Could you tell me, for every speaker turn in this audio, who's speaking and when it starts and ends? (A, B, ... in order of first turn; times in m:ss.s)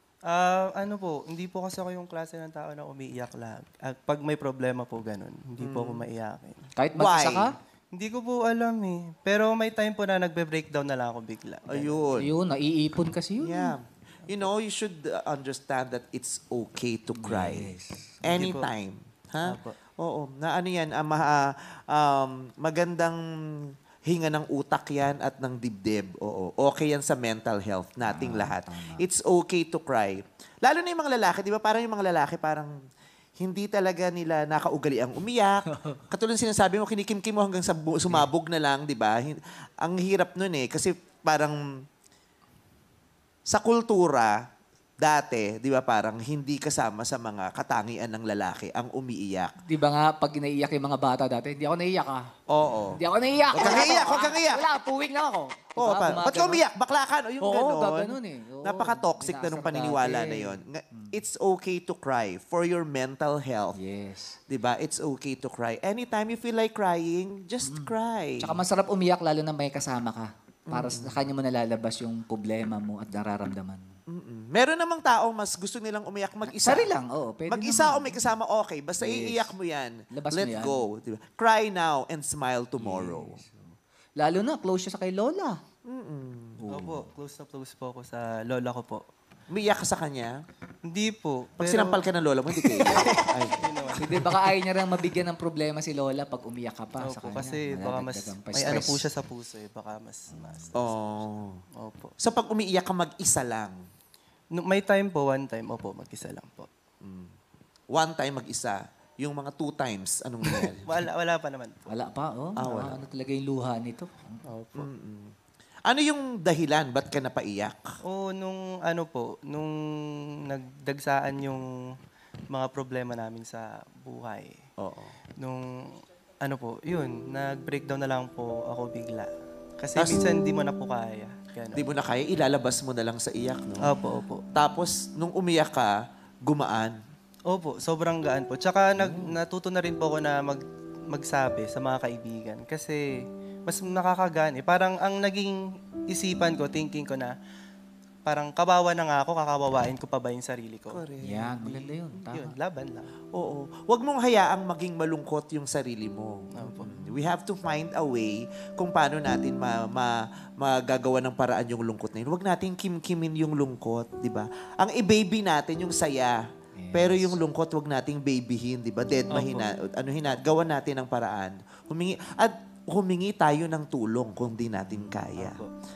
0:00.2-0:06.7 A
0:05.6-0:06.0 B
0:06.8-0:07.5 C
0:07.0-0:07.5 B
0:07.9-0:12.1 A
0:11.7-0:12.3 B
0:12.2-0:13.8 C
0:13.4-0:23.2 B
0:17.1-0:18.2 C
0:18.2-0:18.7 A
0:19.4-0:19.8 A
0:24.1-0:32.7 B
0:28.0-0:29.0 C
0:33.4-0:41.6 B
0:35.7-0:36.0 C
0:43.5-0:44.4 B
0:45.0-0:49.6 B
0:49.6-0:52.3 C
0:52.5-0:53.0 B
0:52.9-0:56.6 C
0:53.5-0:54.6 B
0:55.8-1:03.8 B
0:57.4-1:01.1 C
1:03.7-1:04.4 C
1:04.5-1:08.6 B
1:07.6-1:13.8 C
1:10.7-1:11.3 B
1:14.1-1:23.4 B
1:16.5-1:18.3 C
1:19.0-1:19.5 C
1:20.1-1:20.8 C
1:22.8-1:25.6 C
1:25.9-1:26.6 B
1:26.6-1:27.1 C
1:26.7-1:29.0 A
1:29.5-1:30.4 B
1:30.8-1:32.0 A
1:31.6-1:33.7 B
1:32.8-1:34.4 A
1:32.8-1:33.1 C
1:34.0-1:39.0 C
1:37.0-1:41.0 A
1:40.3-1:40.7 C
1:40.8-1:41.6 B
1:41.8-1:42.1 A
1:42.2-1:43.8 B
1:44.6-1:46.7 A
1:47.0-1:47.3 B
1:47.9-1:50.9 B
1:50.5-1:51.9 A
1:51.9-1:54.4 C
1:52.6-1:53.0 B
1:54.5-1:54.9 A
1:54.8-1:55.3 B
1:55.9-1:57.9 B
1:58.0-2:01.9 A
2:02.5-2:04.6 A
2:04.8-2:05.2 B
2:05.4-2:11.9 A
2:10.0-2:10.2 B
2:11.7-2:13.9 B
2:13.8-2:14.4 A
2:14.5-2:17.0 B
2:17.5-2:27.4 A
2:28.2-2:31.0 A
2:30.9-2:32.0 B
2:31.2-2:32.6 C
2:32.2-2:33.1 A
2:33.3-2:46.4 B
2:36.5-2:37.0 A
2:46.8-2:47.4 C
2:46.9-2:55.6 B
2:49.3-2:49.7 A
2:55.4-2:55.7 A